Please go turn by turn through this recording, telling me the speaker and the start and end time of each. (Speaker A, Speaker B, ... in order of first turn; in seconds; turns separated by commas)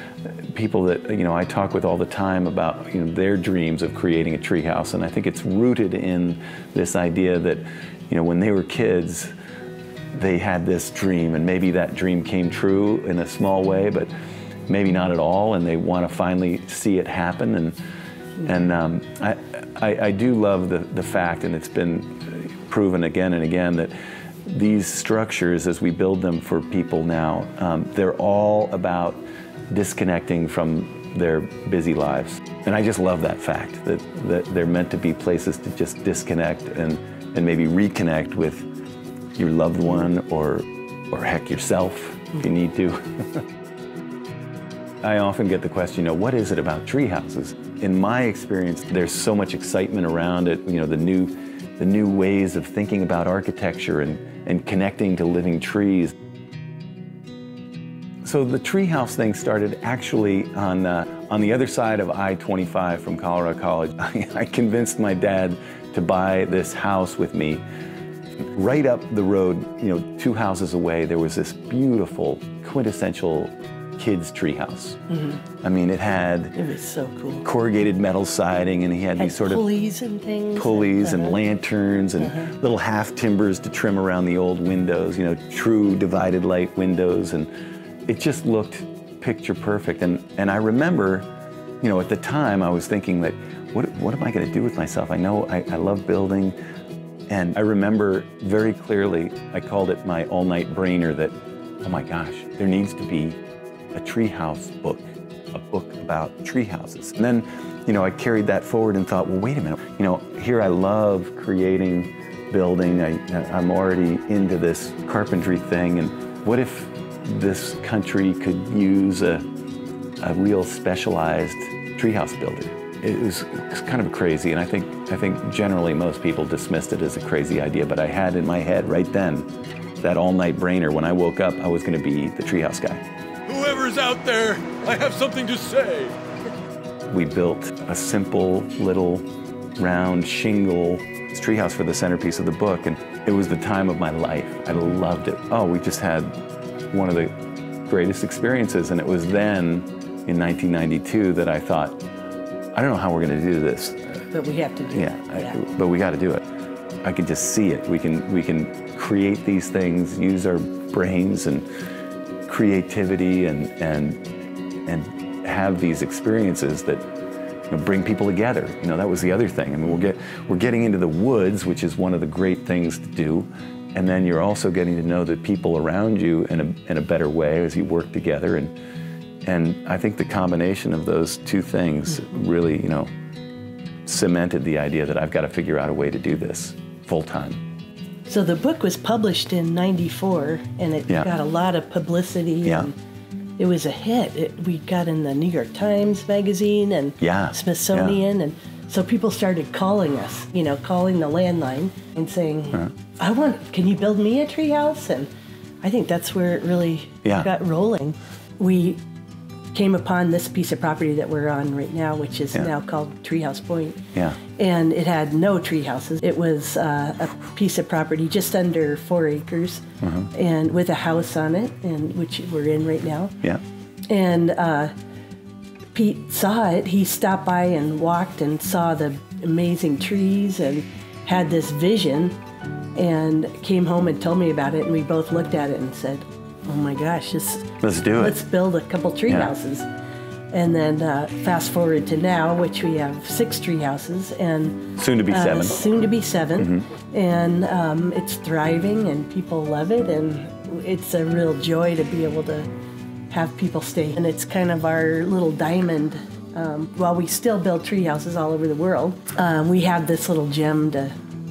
Speaker A: 0.5-9.3, Speaker A: 10.1-14.1, Speaker A: 14.7-17.8, Speaker A: 18.4-23.9, Speaker A: 24.4-38.7, Speaker A: 39.4-43.4, Speaker A: 45.0-56.1, Speaker A: 58.2-67.6, Speaker A: 68.5-75.0, Speaker B: 75.1-75.4, Speaker A: 75.6-76.6, Speaker B: 76.6-77.5, Speaker A: 77.4-79.6, Speaker B: 79.2-81.4, Speaker A: 80.6-87.5, Speaker B: 82.2-82.5, Speaker A: 88.1-91.3, Speaker A: 91.8-96.5, Speaker A: 97.3-103.4, Speaker A: 103.9-119.5, Speaker A: 120.2-129.5, Speaker A: 130.0-133.0, Speaker C: 133.5-136.2, Speaker A: 137.1-139.2, Speaker A: 139.8-146.3, Speaker A: 146.9-147.3, Speaker A: 147.9-152.0, Speaker A: 152.8-154.2, Speaker B: 154.3-155.6, Speaker A: 154.9-156.4, Speaker A: 157.0-161.7, Speaker A: 162.5-164.2, Speaker A: 164.9-167.0, Speaker A: 167.7-178.7, Speaker A: 179.4-183.1, Speaker A: 184.1-187.6, Speaker B: 188.3-192.9, Speaker A: 192.6-192.9, Speaker B: 193.6-205.3, Speaker A: 197.2-198.2, Speaker B: 205.8-209.0, Speaker A: 207.2-207.5, Speaker B: 209.7-223.3, Speaker A: 214.2-214.4, Speaker A: 220.0-220.3, Speaker B: 224.1-224.9, Speaker B: 225.9-232.4, Speaker B: 233.0-239.9, Speaker A: 237.8-238.4, Speaker A: 239.3-239.5, Speaker B: 240.5-252.7, Speaker A: 245.0-245.8, Speaker A: 246.6-246.9, Speaker B: 253.3-261.1